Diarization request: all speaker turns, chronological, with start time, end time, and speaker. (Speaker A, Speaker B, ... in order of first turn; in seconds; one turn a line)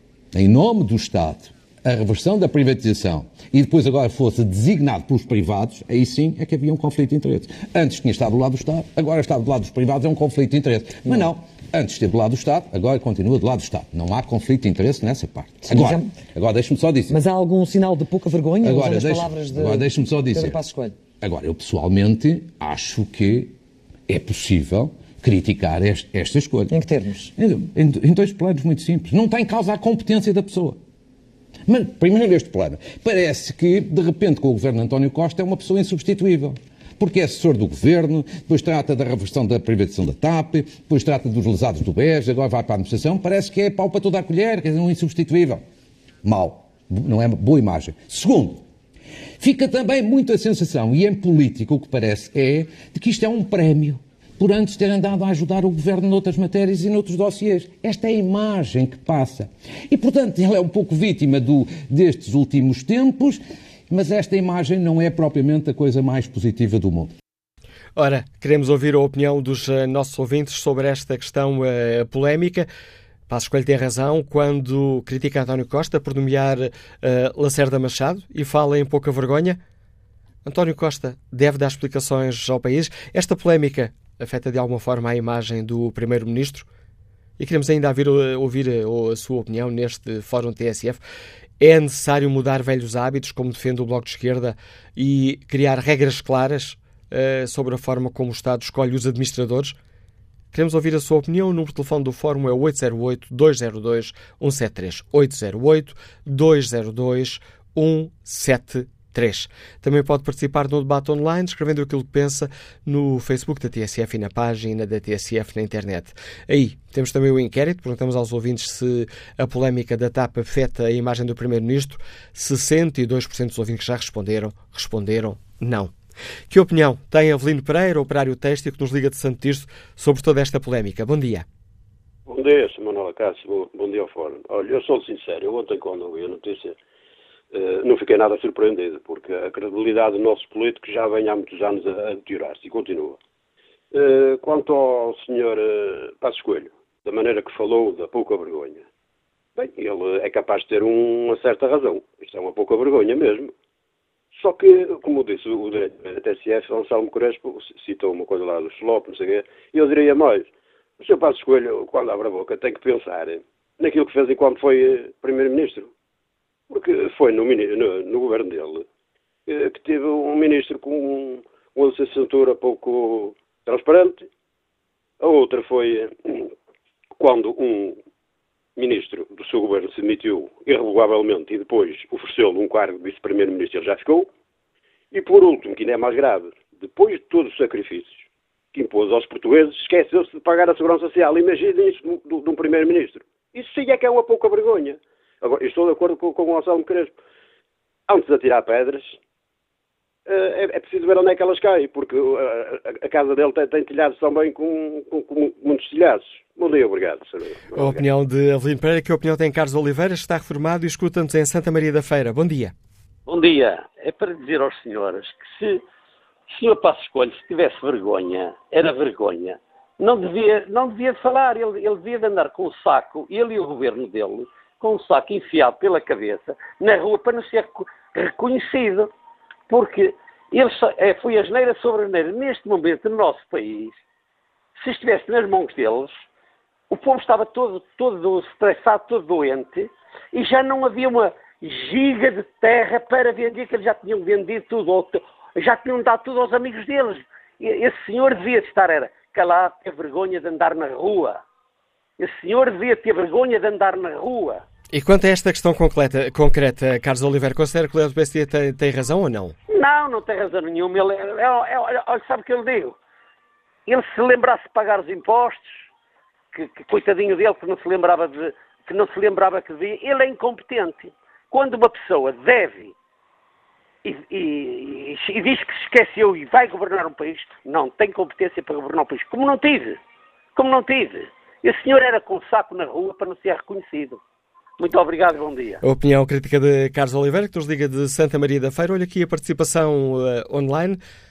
Speaker A: 0.3-17.2
Speaker B: 15.6-16.1
Speaker B: 17.1-21.0
Speaker A: 18.6-20.6
Speaker A: 21.2-23.5
Speaker A: 24.1-26.7
Speaker B: 26.7-27.3
Speaker A: 27.4-30.8
Speaker A: 31.7-45.6
Speaker A: 46.2-48.6
Speaker A: 49.4-67.1
Speaker C: 68.0-72.7
Speaker C: 73.3-79.6
Speaker C: 80.5-86.7
Speaker C: 87.4-91.0
Speaker C: 91.6-99.8
Speaker C: 100.5-125.9
Speaker C: 126.5-131.5
Speaker D: 132.3-136.8
Speaker D: 137.5-143.2
Speaker D: 143.9-148.9
Speaker D: 149.6-153.5
Speaker D: 154.3-165.9
Speaker D: 166.7-168.9
Speaker D: 169.5-174.3
Speaker D: 175.2-176.5
Speaker D: 177.2-178.0
Speaker D: 178.8-184.3
Speaker D: 185.1-197.2
Speaker D: 198.1-199.2
Speaker D: 200.3-208.1
Speaker C: 207.8-212.7
Speaker E: 213.3-215.8
Speaker E: 216.5-229.1
Speaker E: 229.7-234.0
Speaker E: 234.8-236.2
Speaker E: 236.9-251.4
Speaker E: 252.2-254.6
Speaker C: 254.9-259.6
Speaker E: 259.7-263.0
Speaker E: 263.9-265.8
Speaker E: 266.5-272.9
Speaker E: 274.0-280.0
Speaker E: 280.6-284.2
Speaker E: 284.8-285.8
Speaker C: 285.8-291.0